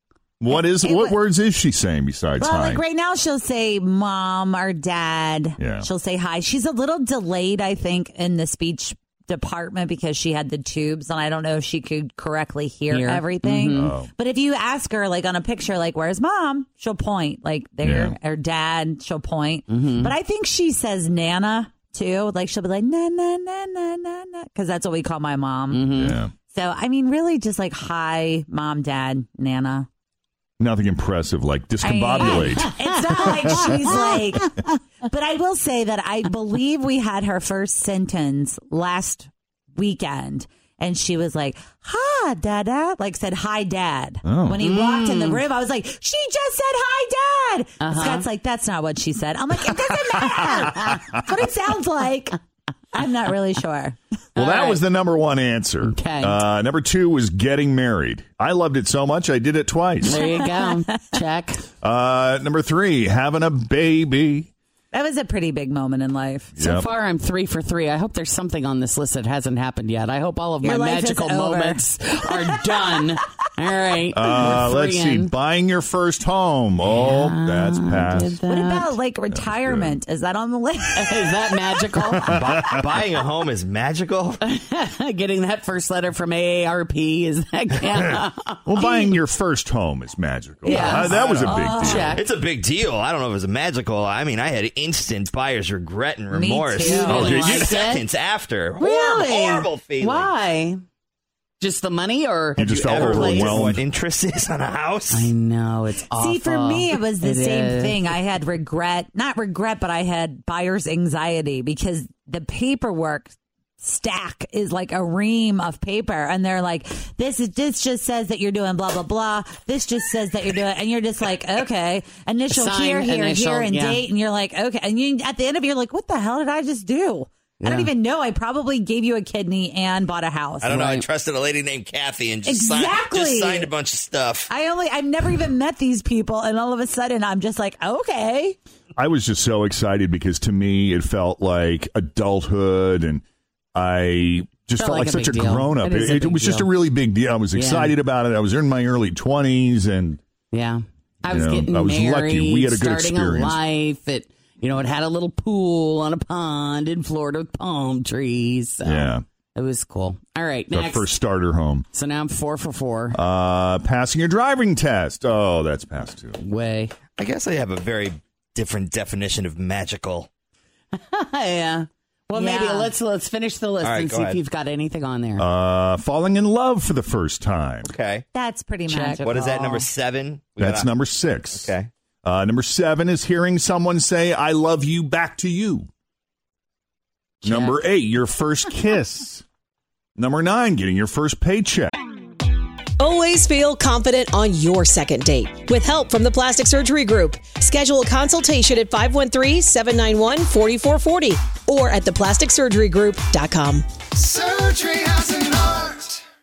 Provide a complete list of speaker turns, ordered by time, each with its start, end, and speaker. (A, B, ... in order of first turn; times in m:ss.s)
0:00.4-0:02.8 A
0:00.5-0:01.2 B
0:02.4-0:25.8 B
0:05.6-0:05.9 A
0:12.9-0:13.9 C
0:13.7-0:14.1 A
0:17.8-0:18.2 A
0:19.7-0:20.2 C
0:25.7-0:26.2 C
0:25.9-0:26.3 A
0:26.5-0:29.9 B
0:30.6-0:33.9 A
0:31.8-0:34.5 B
0:32.3-0:34.0 C
0:35.1-0:52.4 B
0:44.2-0:44.6 A
0:44.6-0:45.4 C
0:47.8-0:48.3 C
0:50.2-0:51.0 A
0:52.9-0:54.0 B
0:54.4-0:54.8 C
0:54.4-1:00.2 A
0:55.8-0:56.4 C
1:00.0-1:01.6 C
1:00.2-1:00.8 B
1:01.8-1:04.5 A
1:04.9-1:06.5 B
1:06.6-1:06.9 A
1:06.6-1:15.3 C
1:10.6-1:12.5 B
1:14.1-1:18.4 A
1:16.8-1:19.0 C
1:18.5-1:21.6 B
1:19.3-1:20.0 A
1:20.9-1:22.3 C
1:22.3-1:22.8 A
1:22.3-1:24.4 D
1:24.5-1:28.6 C
1:28.0-1:32.2 A
1:28.8-1:29.1 B
1:30.6-1:32.1 B
1:30.6-1:32.3 C
1:31.2-1:31.6 D
1:32.1-1:40.3 D
1:36.3-1:37.4 B
1:36.8-1:38.0 C
1:37.1-1:37.8 A
1:38.8-1:40.8 C
1:41.6-1:43.7 C
1:42.6-1:43.8 A
1:42.6-1:45.3 D
1:45.1-1:48.1 C
1:46.2-2:11.0 B
2:02.5-2:04.0 C
2:07.6-2:07.9 C
2:10.6-2:14.5 D
2:10.7-2:11.0 C
2:12.4-2:13.7 B
2:14.5-2:18.6 B
2:19.0-2:23.2 A
2:23.8-2:30.2 A
2:24.8-2:26.7 C
2:27.5-2:27.9 C
2:30.5-2:41.1 C
2:31.3-2:33.6 A
2:38.8-2:39.2 A
2:40.7-2:41.9 A
2:41.9-2:43.2 C
2:43.1-2:46.4 A
2:46.4-2:47.0 C
2:47.2-2:50.3 D
2:51.0-2:55.5 C
2:52.3-2:52.9 B
2:53.8-2:54.4 D
2:55.4-2:57.9 A
2:57.9-2:58.3 D
2:58.3-2:59.9 B
2:58.9-2:59.2 C
2:59.2-3:00.9 D
3:00.6-3:01.7 A
3:01.5-3:01.9 D
3:02.2-3:05.9 A
3:07.4-3:07.8 C
3:07.4-3:09.4 A
3:10.2-3:11.9 A
3:13.0-3:23.8 E
3:25.3-3:25.5 E